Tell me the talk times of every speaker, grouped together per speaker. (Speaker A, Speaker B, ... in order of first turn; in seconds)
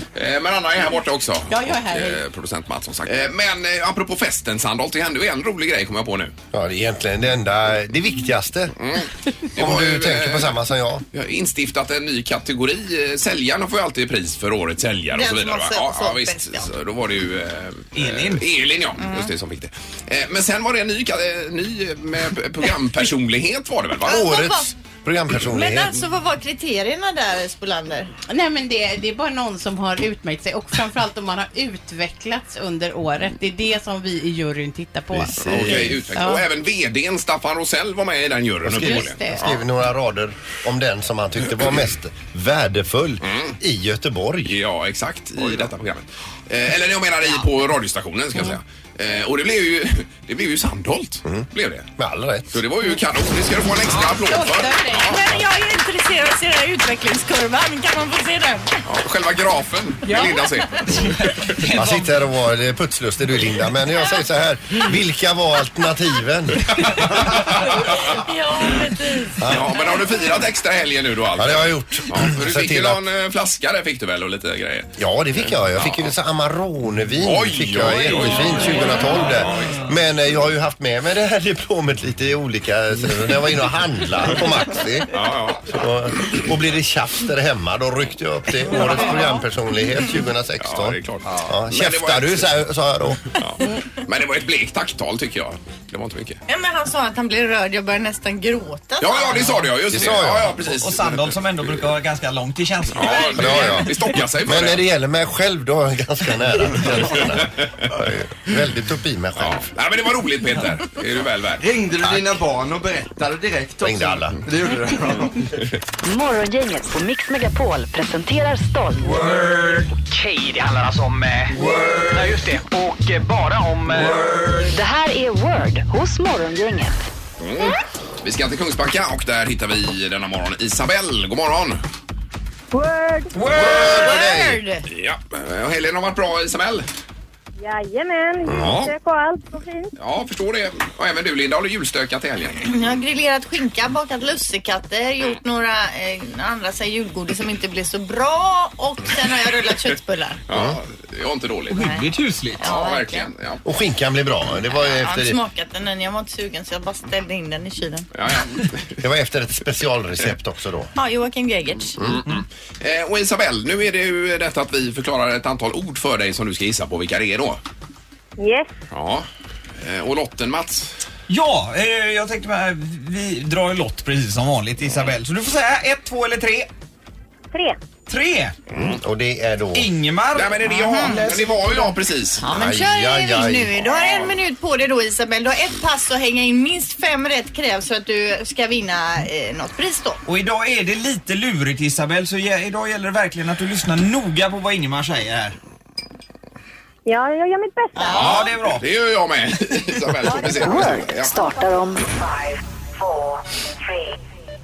Speaker A: 0.1-6.3, 8.8-10.6, 11.1-24.2, 35.4-39.6, 43.2-43.6, 44.4-51.9, 52.5-55.1, 58.8-60.8, 66.7-68.2, 69.5-76.1, 77.2-79.8, 85.1-86.5, 90.6-92.5, 93.3-96.4, 99.0-101.9, 102.9-104.8, 106.8-108.0, 109.4-111.7, 127.4-131.8, 134.9-136.9, 138.5-138.9, 140.0-142.7, 150.5-151.8, 152.6-153.6, 158.1-159.0, 162.0-167.6, 168.9-169.3, 169.8-171.0, 178.7-179.0, 180.3-182.4, 198.1-201.3
Speaker B: 1.5-2.2, 28.3-36.4, 38.8-39.5, 54.1-55.2, 60.1-60.4
Speaker C: 6.5-8.7, 9.5-11.0, 24.1-26.0, 35.1-36.1, 38.6-44.6, 45.4-45.7, 51.2-52.6, 61.0-67.4, 69.4-69.7, 71.3-73.0, 75.0-85.1, 85.6-93.3, 99.9-100.6, 103.3-109.7, 112.0-112.4, 113.8-114.4, 133.3-134.6, 138.4-138.8, 150.5-150.8, 153.6-155.4, 159.0-160.9, 178.7-179.9, 182.4-184.3
Speaker D: 15.1-16.7, 19.0-19.3, 24.1-24.7, 25.3-28.1, 55.0-58.7, 67.9-69.4, 96.5-99.7, 133.5-134.8, 142.6-150.4, 151.7-153.3, 154.8-158.1, 161.0-162.0, 180.7-181.3, 182.4-190.2, 198.0-198.3
Speaker E: 17.9-18.4, 60.9-62.1, 88.7-89.0, 100.5-103.8, 133.4-134.1, 151.7-152.7, 171.3-176.7, 178.1-178.5, 179.7-181.9, 190.2-195.6, 198.0-198.8
Speaker F: 111.7-113.4, 114.5-115.3
Speaker G: 116.0-119.2, 124.7-127.0, 200.6-202.5
Speaker H: 119.3-121.6, 122.1-124.4
Speaker I: 132.7-133.3, 137.6-139.9, 168.4-168.7, 177.5-177.8, 197.1-198.4, 200.3-201.7